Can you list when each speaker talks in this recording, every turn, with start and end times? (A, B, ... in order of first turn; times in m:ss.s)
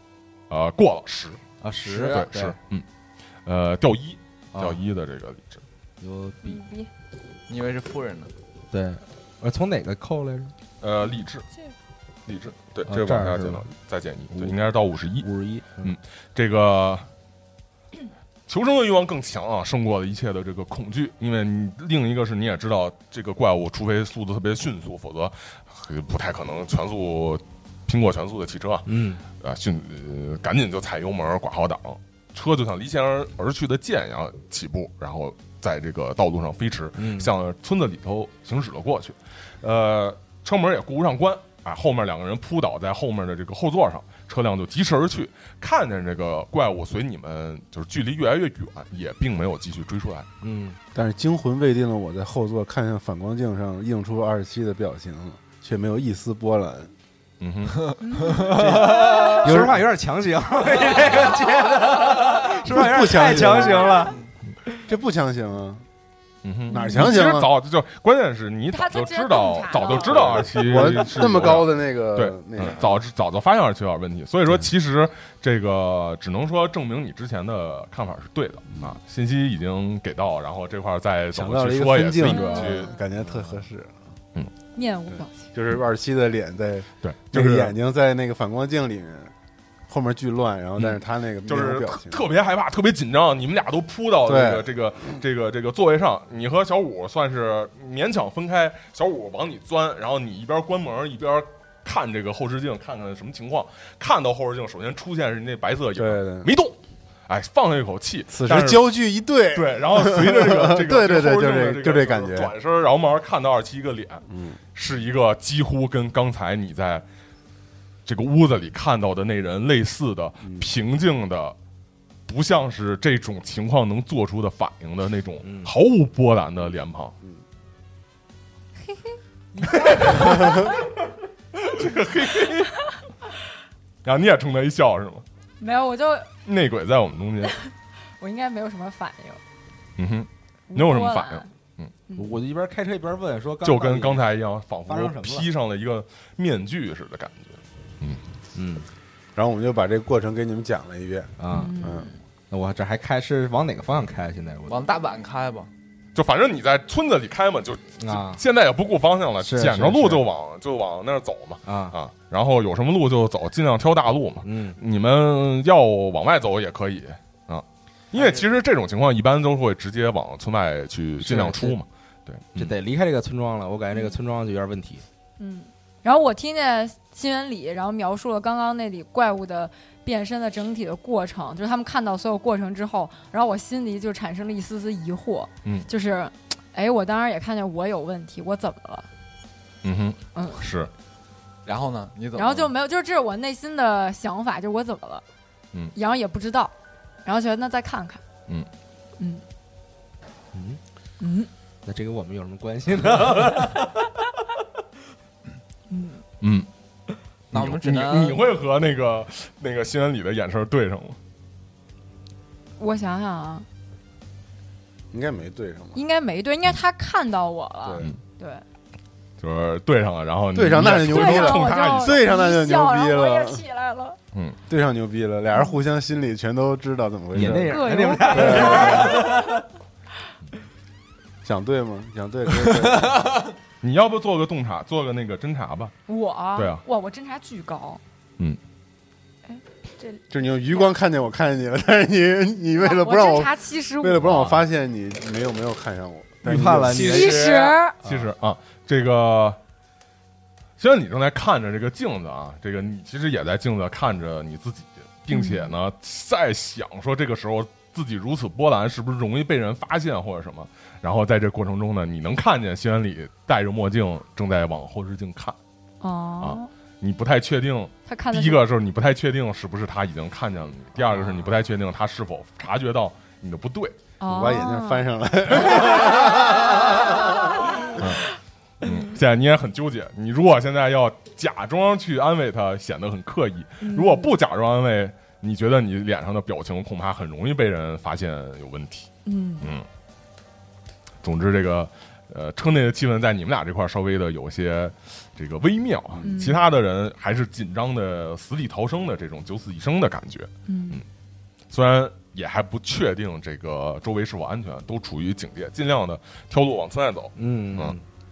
0:00.5-0:01.4 A
0:01.6-0:02.6 B
0:01.9-0:02.2 C
0:02.0-0:02.9 A
0:03.5-0:05.6 A
0:04.5-0:04.8 B
0:06.0-0:06.6 B
0:06.4-0:06.9 D
0:07.5-0:08.3 C
0:08.7-0:10.5 B
0:10.8-0:11.5 A
0:12.3-0:15.3 A
0:12.8-0:13.7 B
0:14.3-0:14.6 B
0:15.2-0:15.9 B
0:15.8-0:17.1 A
0:18.5-0:50.3 A
0:28.9-0:29.2 B
0:37.0-0:37.3 B
0:50.4-0:50.8 B
0:50.9-0:56.9 E
0:57.4-0:57.8 A
0:57.8-0:58.6 C
0:58.0-0:59.5 D
0:58.4-1:04.2 B
0:59.4-0:59.8 E
1:02.6-1:04.1 E
1:03.8-1:04.1 D
1:04.9-1:05.8 E
1:06.4-1:22.9 A
1:06.7-1:07.2 D
1:06.7-1:07.5 E
1:08.7-1:10.7 D
1:10.0-1:12.9 E
1:21.3-1:24.0 E
1:22.2-1:23.0 D
1:24.7-1:25.5 D
1:25.1-1:29.3 E
1:27.0-1:27.7 A
1:29.9-1:32.2 E
1:30.8-1:46.8 A
1:34.2-1:34.7 E
1:46.0-1:46.5 E
1:47.3-1:48.9 A
1:48.3-1:52.5 E
1:49.5-1:57.0 A
1:54.3-1:54.6 E
1:58.1-2:01.6 A
2:02.3-2:07.2 A
2:05.4-2:05.7 B
2:08.8-2:10.8 D
2:09.8-2:10.5 A
2:11.6-2:12.7 A
2:14.0-2:15.2 A
2:15.6-2:16.3 D
2:16.4-2:17.6 A
2:17.5-2:19.4 D
2:20.0-2:21.9 A
2:20.7-2:21.5 D
2:22.1-2:22.4 D
2:22.2-2:24.3 B
2:23.6-2:28.2 A
2:24.9-2:25.5 B
2:28.6-2:28.9 B
2:29.4-2:32.1 E
2:31.4-2:31.8 B
2:31.5-2:32.2 D
2:32.5-2:34.9 B
2:34.7-2:35.7 C
2:36.2-2:52.7 A
2:38.0-2:38.4 B
2:39.4-2:40.2 B
2:41.7-2:42.0 B
2:44.4-2:44.8 B
2:48.1-2:48.4 C
2:51.2-2:51.8 B
2:52.6-2:55.0 B
2:53.9-2:54.2 D
2:55.4-3:09.1 D
3:09.8-3:10.9 A
3:10.4-3:10.6 D
3:11.7-3:12.7 C
3:12.4-3:15.2 D
3:16.0-3:16.7 D
3:17.2-3:18.2 D
3:19.2-3:19.4 D
3:20.5-3:20.8 B
3:21.2-3:21.5 D
3:21.8-3:23.9 B
3:25.9-3:26.2 D
3:26.4-3:26.7 A
3:27.5-3:28.4 C
3:27.5-3:31.2 A
3:32.8-3:33.7 D
3:35.1-3:36.0 E
3:36.0-3:38.6 D
3:39.4-3:42.2 A
3:40.5-3:43.6 E
3:40.8-3:44.2 D
3:44.7-3:49.3 E
3:45.5-3:45.8 D
3:47.3-3:49.6 B
3:47.6-3:49.6 D
3:51.4-3:53.4 E
3:53.8-3:55.9 A
3:56.1-3:58.0 D
3:56.6-3:56.8 A
3:59.5-4:00.9 D
4:00.3-4:07.4 E
4:02.8-4:04.3 D
4:04.2-4:04.6 A
4:06.4-4:07.5 B
4:06.9-4:07.8 C
4:07.0-4:08.0 D
4:08.0-4:09.6 A
4:10.8-4:25.6 A
4:15.3-4:15.7 D
4:26.0-4:26.7 D
4:26.4-4:34.0 A
4:28.1-4:28.6 D
4:31.1-4:31.4 C
4:34.2-4:35.1 D
4:34.3-4:37.9 E
4:35.8-4:38.0 D
4:38.0-4:38.3 A
4:38.8-4:49.1 A
4:38.8-4:39.2 D
4:43.8-4:44.3 D
4:49.3-4:49.7 D
4:49.6-4:49.9 A
4:51.2-5:01.0 A
4:56.2-4:56.6 D
5:00.7-5:01.0 D
5:01.7-5:08.0 A
5:07.4-5:08.0 B